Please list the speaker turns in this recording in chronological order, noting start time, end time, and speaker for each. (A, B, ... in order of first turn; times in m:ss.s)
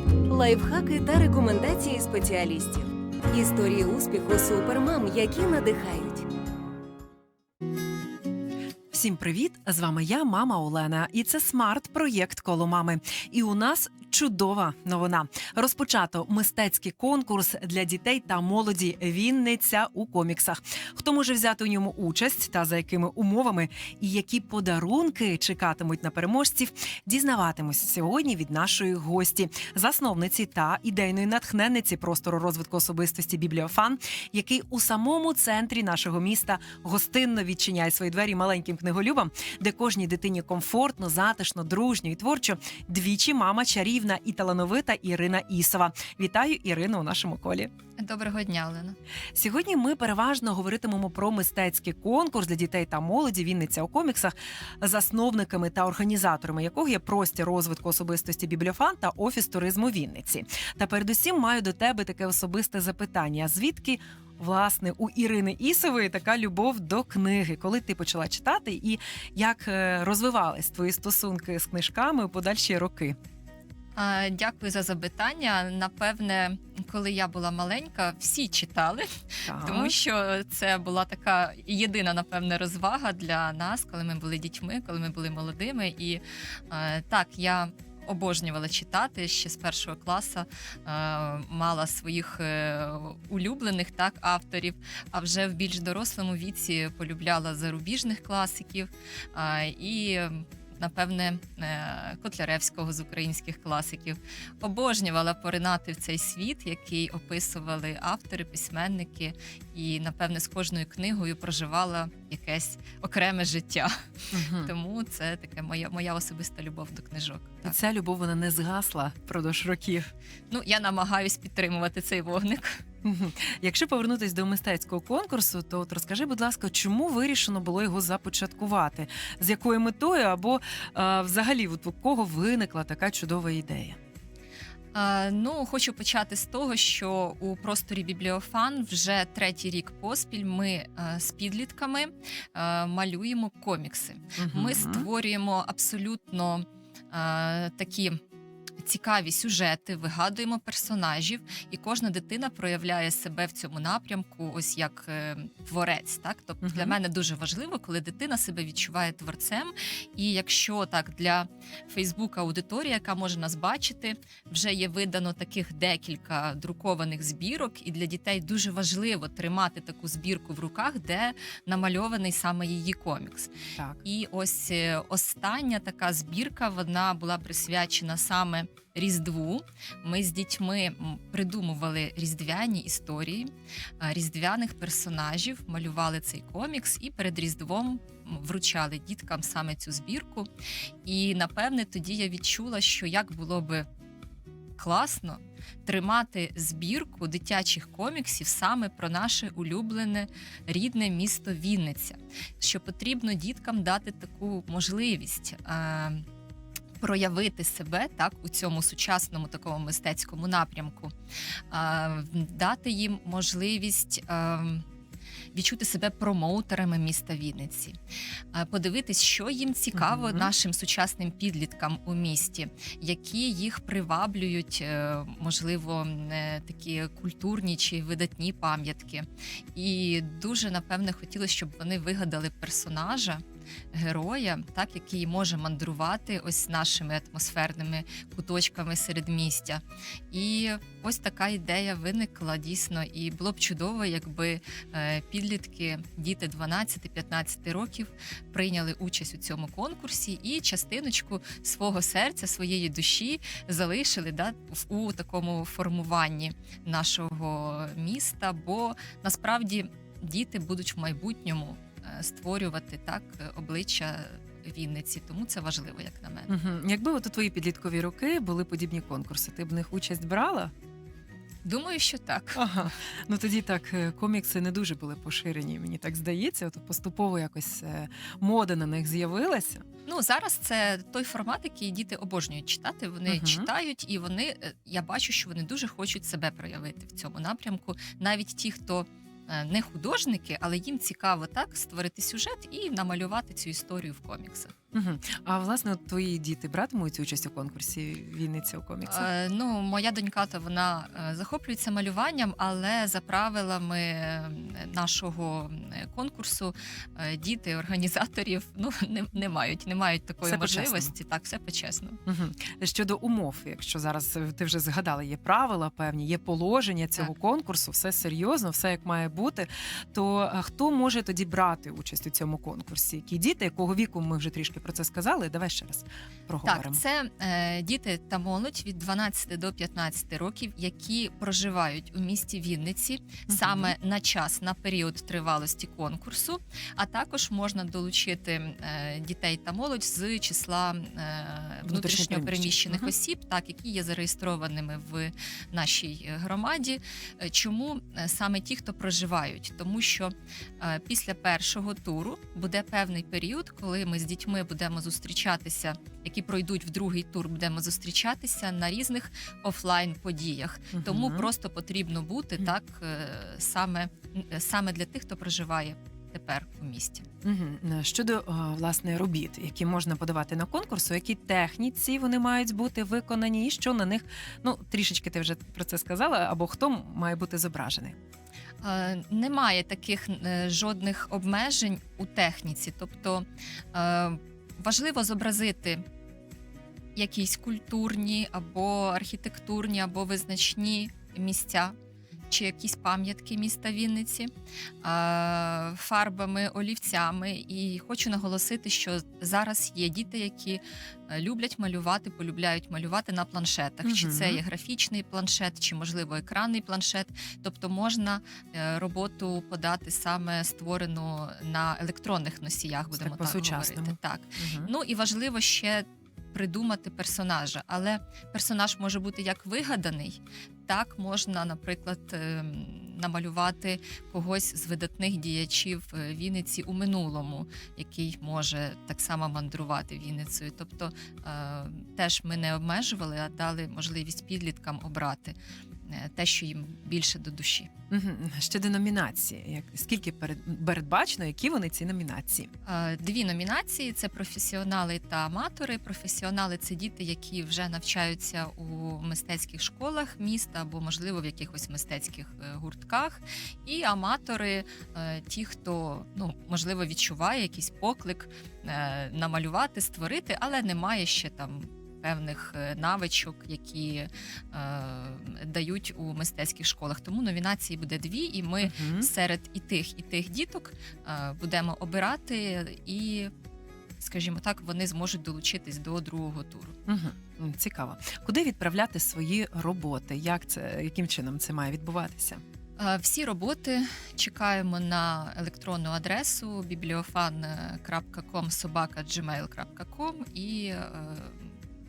0:00.3-0:06.3 A
0:08.9-0:47.7 B
0:48.0-0:49.0 C
0:49.3-1:13.2 B
1:14.0-1:57.8 C
1:19.4-1:19.9 B
1:54.3-1:54.7 B
1:57.6-2:00.1 B
2:00.5-2:02.8 C
2:03.0-2:14.0 B
2:14.9-2:28.2 C
2:24.4-2:25.1 B
2:28.8-3:03.5 C
2:36.6-2:37.0 B
2:53.8-2:54.0 B
3:04.0-3:10.5 C
3:11.0-3:13.8 C
3:14.8-3:26.2 C
3:27.0-3:31.1 C
3:31.7-3:34.8 C
3:35.5-3:38.0 C
3:38.5-3:53.4 C
3:39.9-3:40.5 B
3:53.9-4:26.5 C
4:26.5-4:30.7 B
4:31.6-4:32.6 C
4:32.5-4:39.8 B
4:40.0-4:54.7 C
4:43.3-4:43.7 B
4:54.9-4:59.3 B
4:59.0-5:12.2 C
5:10.4-5:11.1 B
5:12.3-5:27.0 B
5:26.6-6:07.2 C
5:33.5-5:33.9 B
5:41.8-5:43.1 B
6:00.9-6:01.5 B
6:07.4-6:18.1 B
6:18.8-6:26.0 C
6:27.1-6:31.9 C
6:32.5-6:34.5 C
6:35.0-7:17.9 C
6:44.0-6:44.6 B
6:53.1-6:54.9 B
7:18.1-7:22.7 B
7:22.8-7:53.5 C
7:48.8-7:49.3 B
7:54.2-7:57.0 C
7:57.1-8:02.6 B
8:03.0-8:11.7 C